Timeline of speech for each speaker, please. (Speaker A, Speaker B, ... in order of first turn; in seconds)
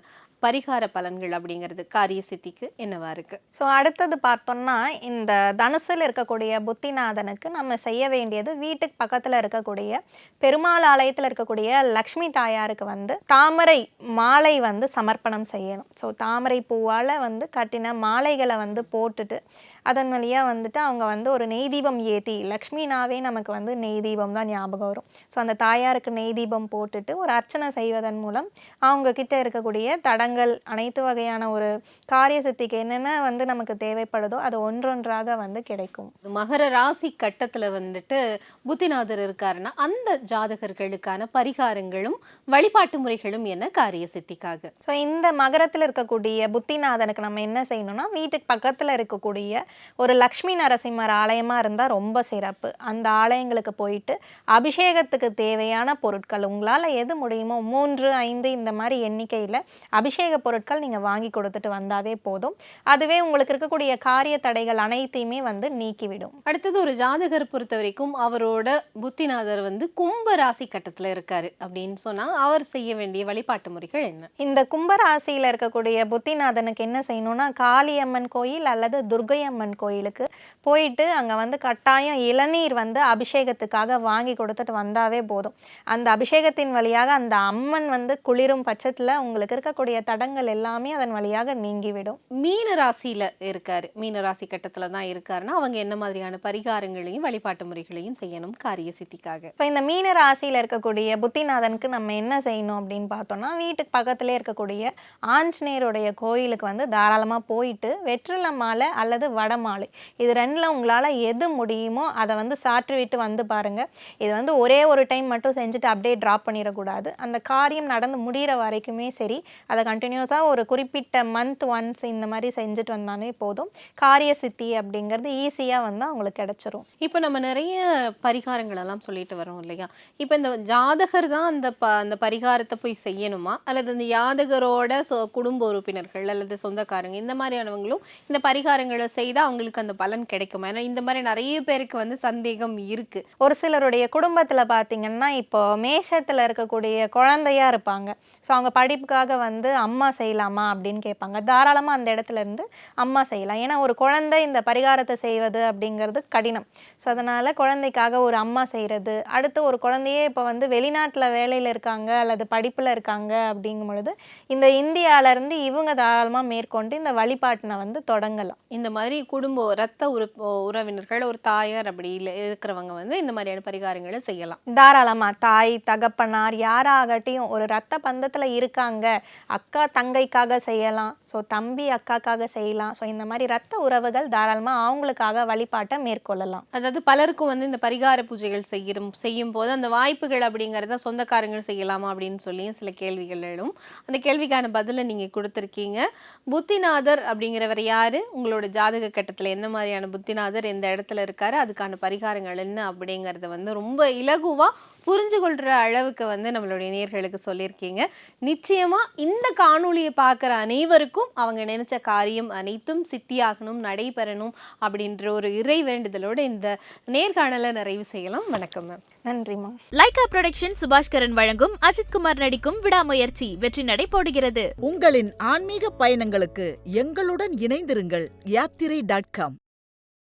Speaker A: 0.4-3.4, 36.2-44.7, 66.5-74.3, 92.4-99.5, 127.0-143.2, 168.7-174.6, 186.7-219.0
Speaker B: 3.6-36.1, 44.9-66.4, 74.4-92.2, 99.6-126.8, 143.4-168.6, 174.7-186.6, 219.3-219.8
Speaker C: 220.0-224.7
Speaker D: 224.8-229.6